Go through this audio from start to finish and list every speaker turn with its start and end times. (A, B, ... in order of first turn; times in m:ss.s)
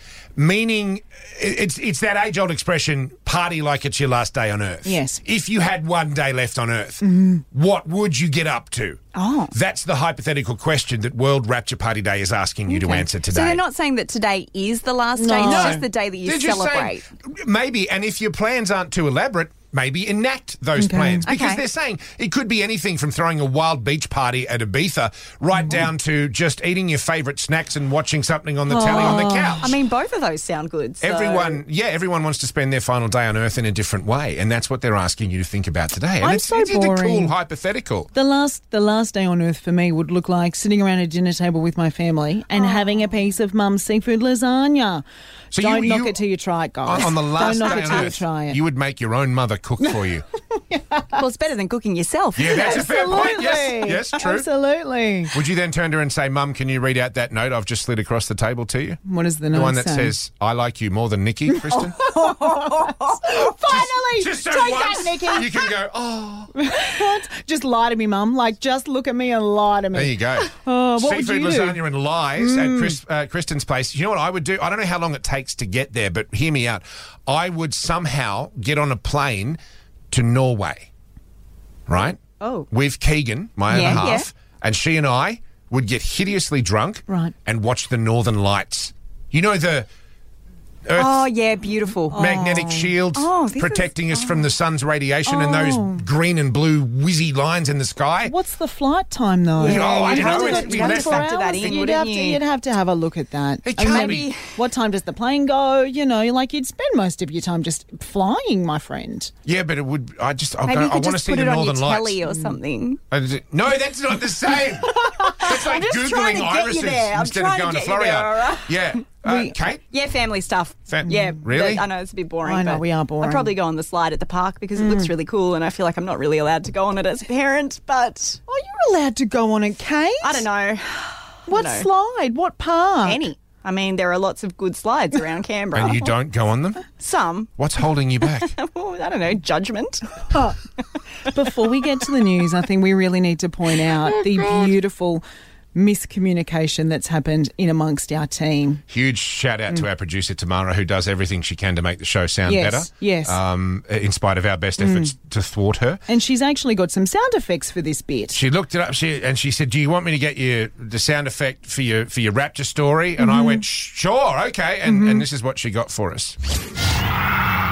0:00.4-0:13.6 A
0:04.8-0:05.2 B
0:07.0-0:07.4 B
0:09.1-0:09.5 B
0:12.7-0:17.1 C
0:15.2-0:15.8 B
0:15.4-0:29.7 A
0:20.8-0:21.3 B
0:21.3-0:21.6 C
0:28.7-0:29.7 B
0:28.9-0:31.6 C
0:31.0-0:38.1 A
0:36.2-0:37.4 B
0:38.1-0:48.6 B
0:45.5-0:46.2 A
0:46.8-0:50.2 A
0:50.7-0:51.2 B
0:51.2-0:52.8 C
0:52.4-0:54.5 A
0:52.5-0:55.3 B
0:55.3-0:59.0 A
0:59.0-1:00.2 B
0:59.5-1:02.0 A
1:01.7-1:05.7 B
1:02.3-1:03.1 C
1:03.7-1:06.5 A
1:06.6-1:11.8 B
1:09.9-1:19.6 A
1:12.4-1:13.0 B
1:20.1-1:20.9 A
1:21.9-1:29.9 A
1:23.7-1:24.3 C
1:27.1-1:27.3 B
1:30.9-1:31.3 A
1:31.0-1:32.2 C
1:32.1-1:32.9 B
1:32.1-1:38.3 A
1:33.1-1:34.5 C
1:35.3-1:36.1 B
1:38.2-1:49.3 B
1:39.6-1:41.7 A
1:39.6-1:42.4 C
1:43.6-1:44.3 A
1:43.8-1:44.5 C
1:49.5-1:52.2 A
1:50.7-1:53.0 C
1:53.1-1:59.8 A
1:55.1-1:58.9 C
1:59.3-1:59.5 B
1:59.9-2:08.4 C
2:00.9-2:01.8 A
2:01.1-2:01.4 B
2:02.4-2:03.6 B
2:04.8-2:05.1 B
2:08.5-2:10.5 B
2:10.2-2:11.9 C
2:11.5-2:13.2 B
2:13.0-2:16.2 C
2:15.7-2:16.9 A
2:17.0-2:17.6 C
2:17.6-2:18.5 A
2:18.2-2:20.0 C
2:21.2-2:28.8 B
2:24.2-2:24.7 A
2:28.9-2:36.0 A
2:32.4-2:33.4 B
2:34.8-2:35.1 B
2:36.1-2:38.4 B
2:38.3-2:46.4 A
2:43.2-2:43.6 B
2:44.8-2:45.2 B